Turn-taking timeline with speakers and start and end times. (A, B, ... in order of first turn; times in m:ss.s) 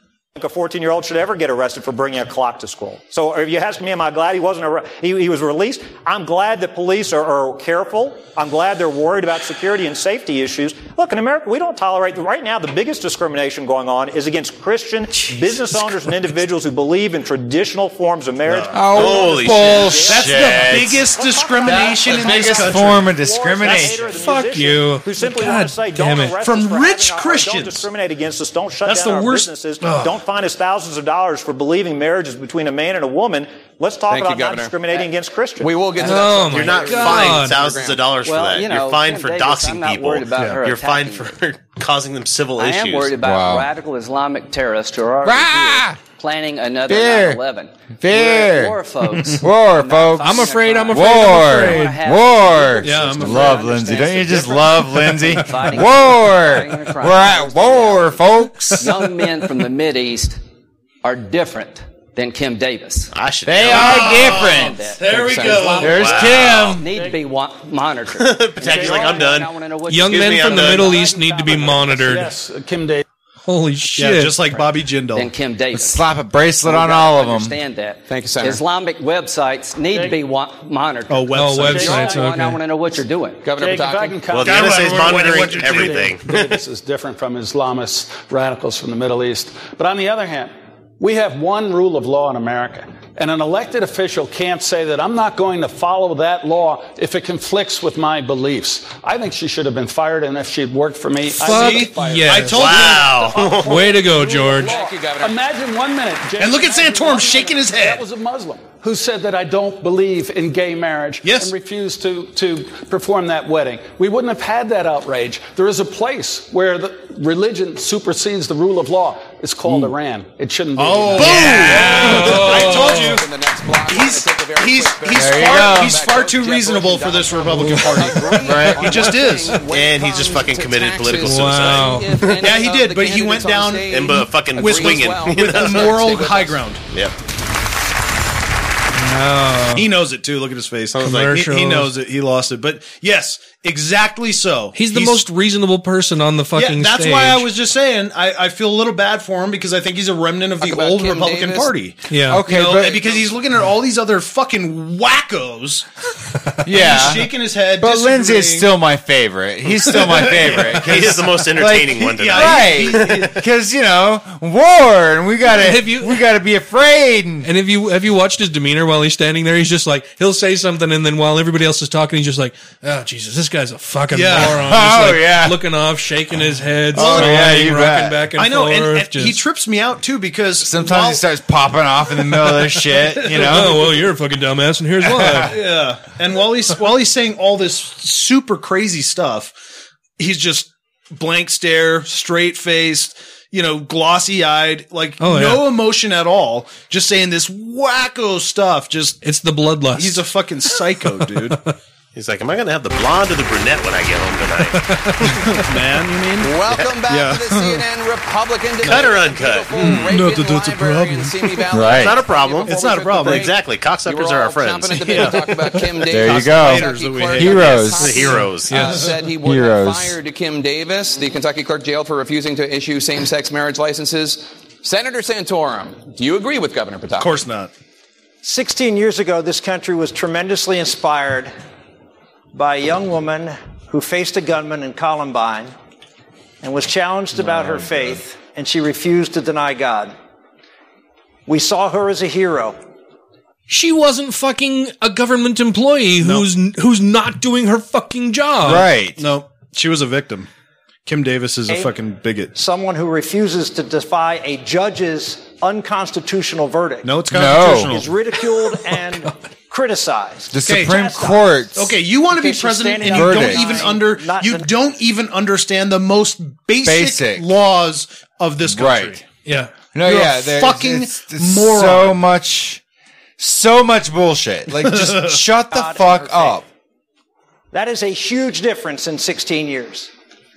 0:00.4-0:36.0 A
0:18.5-0:18.7 B
0:18.7-0:21.1 C
0:18.9-0:20.1 D
0:20.0-0:23.1 B
0:21.6-0:24.1 C
0:24.1-0:26.4 E
0:26.4-0:27.8 B
0:28.8-0:29.5 B
0:29.8-0:30.2 E
0:34.1-0:38.0 F
0:36.0-0:37.6 E
0:36.4-0:43.1 D
0:38.2-0:41.3 G
0:40.3-0:40.6 B
0:42.6-1:00.4 G
0:43.2-0:43.7 C
0:45.2-0:46.0 C
0:46.9-0:47.4 C
0:48.0-0:59.0 C
0:50.2-0:51.9 E
0:52.8-0:53.6 B
1:01.0-1:03.1 G
1:03.1-1:04.1 D
1:03.4-1:04.8 C
1:03.7-1:06.4 B
1:03.7-1:12.2 G
1:05.0-1:06.0 F
1:05.8-1:06.9 C
1:05.8-1:06.7 D
1:08.2-1:11.0 D
1:08.7-1:09.3 A
1:09.9-1:12.3 E
1:12.0-1:13.0 H
1:13.4-1:14.4 E
1:14.0-1:15.3 B
1:15.1-1:16.0 G
1:15.7-1:17.5 C
1:16.6-1:23.5 G
1:18.1-1:18.6 F
1:21.1-1:22.2 B
1:21.3-1:22.6 E
1:23.4-1:24.3 F
1:23.5-2:01.7 H
1:24.3-1:26.6 D
1:24.3-1:26.2 B
1:41.4-1:43.0 E
1:41.4-1:43.6 B
1:42.5-1:43.8 D
1:43.6-1:44.7 E
1:44.5-1:45.4 F
1:46.4-1:48.0 B
1:51.2-1:51.5 B
2:00.8-2:03.3 B
2:01.2-2:03.2 E
2:01.5-2:16.7 F
2:03.8-2:09.6 B
2:05.1-2:06.0 C
2:07.7-2:08.0 E
2:08.4-2:09.0 C
2:09.6-2:12.4 D
2:11.2-2:12.2 E
2:12.4-2:16.8 B
2:13.9-2:16.0 D
2:18.9-2:19.9 E
2:19.7-2:25.3 B
2:20.9-2:21.3 D
2:21.0-2:21.9 E
2:24.7-2:27.5 E
2:26.5-2:35.8 B
2:30.6-2:31.7 F
2:32.1-2:32.5 E
2:32.3-2:33.2 C
2:36.6-2:47.5 C
2:36.6-2:38.7 B
2:39.8-2:43.4 B
2:40.6-2:43.3 D
2:45.5-2:46.2 E
2:47.4-2:59.4 E
2:54.1-2:54.7 B
2:54.3-2:55.6 C
2:56.9-2:57.7 B
2:56.9-2:58.3 C
2:58.3-3:01.2 B
3:00.6-3:04.0 C
3:03.0-3:04.0 B
3:03.3-3:05.6 E
3:05.0-3:05.5 C
3:05.2-3:09.5 B
3:10.2-3:19.2 B
3:15.2-3:15.7 E
3:19.2-3:21.7 E
3:19.9-3:21.6 B
3:22.1-3:24.8 D
3:24.7-3:25.7 E
3:25.2-3:27.8 B
3:26.4-3:47.3 F
3:28.8-3:31.7 B
3:28.8-3:30.0 D
3:31.7-3:32.2 C
3:31.9-3:35.3 D
3:32.6-3:33.5 B
3:34.9-3:39.2 B
3:36.1-3:38.4 C
3:37.9-3:39.0 D
3:38.6-3:39.0 E
3:39.4-3:40.2 C
3:47.2-3:47.7 B
3:48.4-3:51.5 I
3:52.5-3:55.7 I
3:56.6-4:00.1 I
3:57.5-3:57.9 B
4:01.4-4:02.8 I
4:03.7-4:08.9 E
4:06.2-4:06.5 B
4:08.6-4:09.2 C
4:09.2-4:10.5 B
4:11.0-4:12.5 B
4:12.5-4:17.2 I
4:17.0-4:18.1 B
4:17.3-4:18.0 C
4:17.8-4:21.7 I
4:20.5-4:21.9 C
4:20.6-4:21.0 B
4:21.7-4:29.2 B
4:22.3-4:24.7 I
4:23.0-4:23.8 C
4:26.8-4:27.5 C
4:28.6-4:29.2 C
4:29.4-4:29.7 E
4:29.9-4:32.8 C
4:30.0-4:32.2 B
4:33.4-4:36.6 C
4:34.8-4:35.4 B
4:35.7-4:36.6 I
4:37.7-4:40.1 I